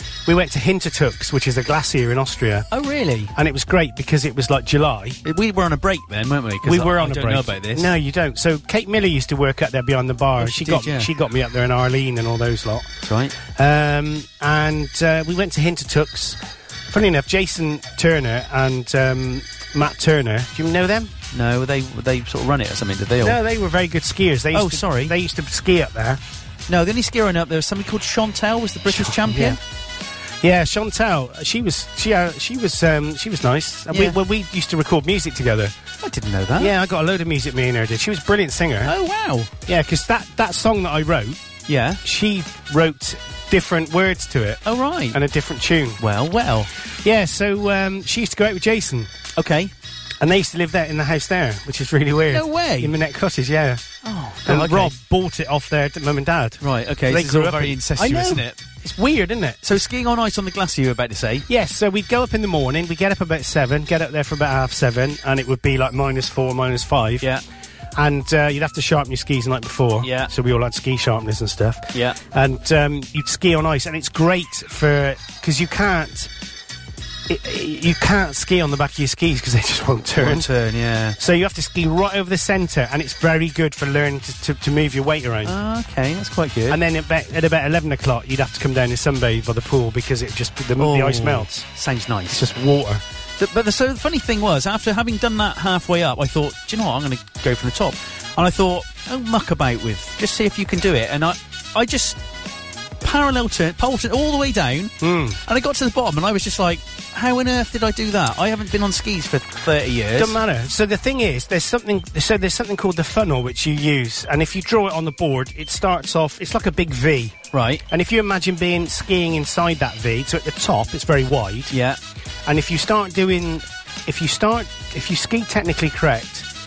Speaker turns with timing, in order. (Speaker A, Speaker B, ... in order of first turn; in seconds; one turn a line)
Speaker A: 0.2-2.7
Speaker B: 2.7-3.3
Speaker A: 3.3-5.2
Speaker B: 5.2-7.9
Speaker A: 6.6-12.9
Speaker B: 10.4-11.1
Speaker B: 13.0-13.3
Speaker A: 13.4-21.1
Speaker B: 21.3-23.4
Speaker A: 23.2-26.2
Speaker B: 24.5-25.1
Speaker B: 26.7-29.6
Speaker A: 28.9-29.6
Speaker A: 30.4-35.8
Speaker B: 33.9-34.2
Speaker B: 36.0-36.7
Speaker A: 36.6-38.9
Speaker B: 38.8-39.5
Speaker A: 39.7-41.4
Speaker B: 41.7-42.0
Speaker A: 42.0-46.0
Speaker B: 44.6-45.2
Speaker B: 46.0-46.7
Speaker A: 47.0-49.1
Speaker B: 49.4-49.7
Speaker A: 50.2-53.8
Speaker B: 52.3-52.9
Speaker B: 54.0-54.9
Speaker A: 54.4-59.6
Speaker B: 56.6-58.6
Speaker B: 59.6-61.5
Speaker A: 61.5-67.3
Speaker A: 68.0-76.3
Speaker B: 70.0-70.3
Speaker A: 77.3-80.5
Speaker B: 80.2-81.2
Speaker A: 81.2-85.5
Speaker B: 85.4-86.8
Speaker A: 86.7-91.7
Speaker B: 90.8-92.5
Speaker A: 92.3-93.0
Speaker B: 93.4-102.2
Speaker B: 103.0-110.4
Speaker A: 105.0-105.4
Speaker A: 110.1-121.7
Speaker B: 117.5-117.8
Speaker B: 121.7-122.0
Speaker A: 122.5-126.5